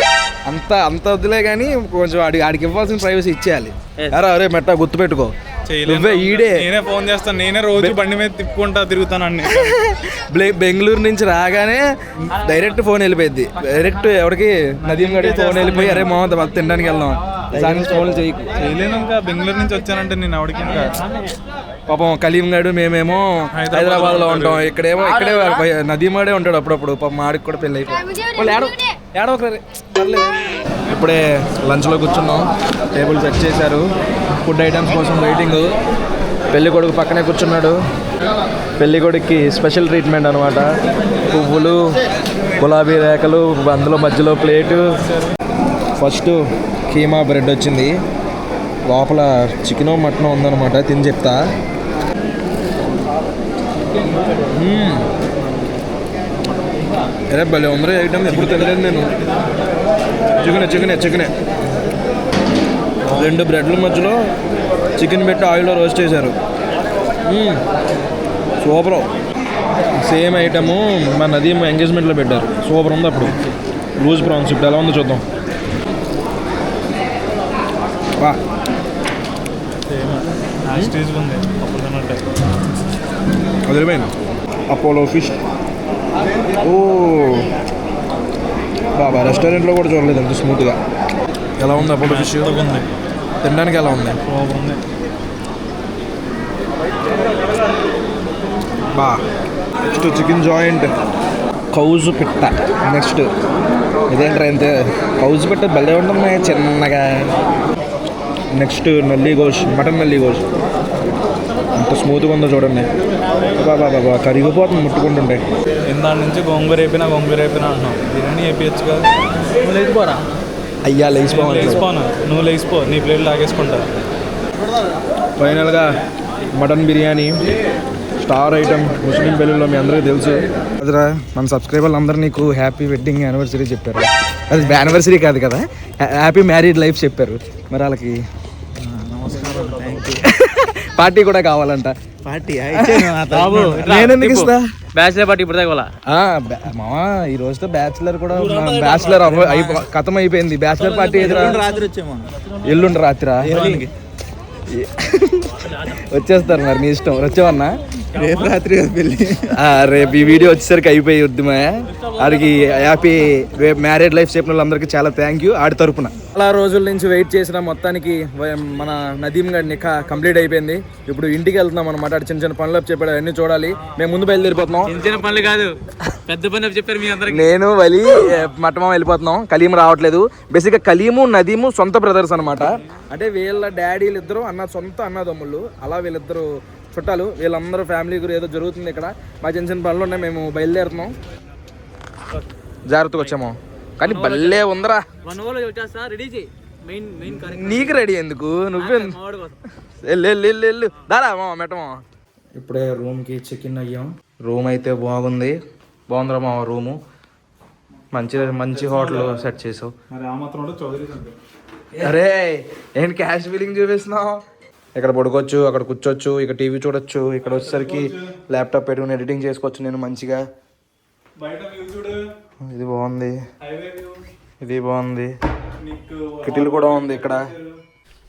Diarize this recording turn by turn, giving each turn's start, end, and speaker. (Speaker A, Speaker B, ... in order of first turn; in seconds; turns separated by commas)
Speaker A: 0.5-5.3, Speaker B: 5.7-9.8, Speaker A: 5.8-6.7, Speaker A: 7.7-8.0, Speaker A: 9.4-18.6, Speaker B: 14.8-16.1, Speaker B: 18.6-21.0, Speaker A: 21.9-30.3, Speaker B: 23.5-24.7, Speaker A: 30.9-33.9, Speaker A: 34.4-35.7, Speaker A: 36.5-37.8, Speaker A: 38.8-40.6, Speaker A: 41.3-41.8, Speaker A: 42.6-45.0, Speaker A: 46.0-46.4, Speaker A: 46.9-47.9, Speaker A: 48.9-51.4, Speaker B: 53.9-54.2, Speaker A: 54.5-55.1, Speaker B: 55.2-55.7, Speaker A: 57.3-59.1, Speaker B: 58.3-59.5, Speaker A: 60.4-61.3, Speaker B: 63.1-63.3, Speaker A: 63.1-64.2, Speaker A: 65.0-66.3, Speaker A: 67.2-67.6, Speaker A: 68.6-69.1, Speaker A: 70.0-73.4, Speaker A: 74.0-75.2, Speaker B: 79.8-82.3, Speaker A: 83.7-84.1, Speaker A: 84.7-85.4, Speaker A: 86.6-87.5, Speaker A: 88.9-90.8, Speaker A: 91.6-92.5, Speaker B: 91.7-92.9, Speaker A: 93.4-94.2, Speaker B: 94.2-94.8, Speaker A: 98.9-99.2, Speaker A: 99.8-100.9, Speaker A: 101.7-103.3, Speaker A: 104.1-107.3, Speaker A: 108.5-110.4, Speaker A: 111.8-112.9, Speaker A: 113.5-115.4, Speaker B: 115.8-119.1, Speaker C: 119.6-120.2, Speaker A: 120.8-121.8, Speaker B: 121.2-123.9, Speaker A: 125.4-125.8, Speaker A: 126.6-127.4, Speaker A: 128.2-138.2, Speaker D: 138.8-140.2, Speaker B: 139.3-140.0, Speaker A: 140.1-142.0, Speaker D: 142.2-144.1, Speaker A: 142.7-143.2, Speaker C: 143.2-145.9, Speaker A: 143.7-144.6, Speaker A: 146.1-151.6, Speaker C: 148.3-149.8, Speaker C: 150.8-152.2, Speaker D: 151.1-152.0, Speaker A: 152.6-153.9, Speaker C: 153.4-153.8, Speaker A: 154.7-158.5, Speaker D: 158.1-159.6, Speaker A: 159.4-174.9, Speaker B: 173.8-175.3, Speaker C: 174.8-177.5, Speaker A: 177.2-191.1, Speaker B: 182.6-183.0, Speaker A: 192.9-195.1, Speaker C: 194.0-194.6, Speaker C: 195.2-198.0, Speaker A: 197.2-199.2, Speaker C: 198.8-199.6, Speaker A: 200.0-202.0, Speaker A: 202.6-205.6, Speaker A: 206.1-206.9, Speaker A: 208.1-209.9, Speaker B: 208.1-209.5, Speaker B: 210.1-211.4, Speaker A: 212.0-214.4, Speaker A: 214.9-220.4, Speaker B: 217.4-218.4, Speaker B: 221.4-222.3, Speaker A: 222.7-223.4, Speaker B: 223.6-224.2, Speaker A: 224.6-225.3, Speaker B: 225.6-227.8, Speaker A: 226.4-227.5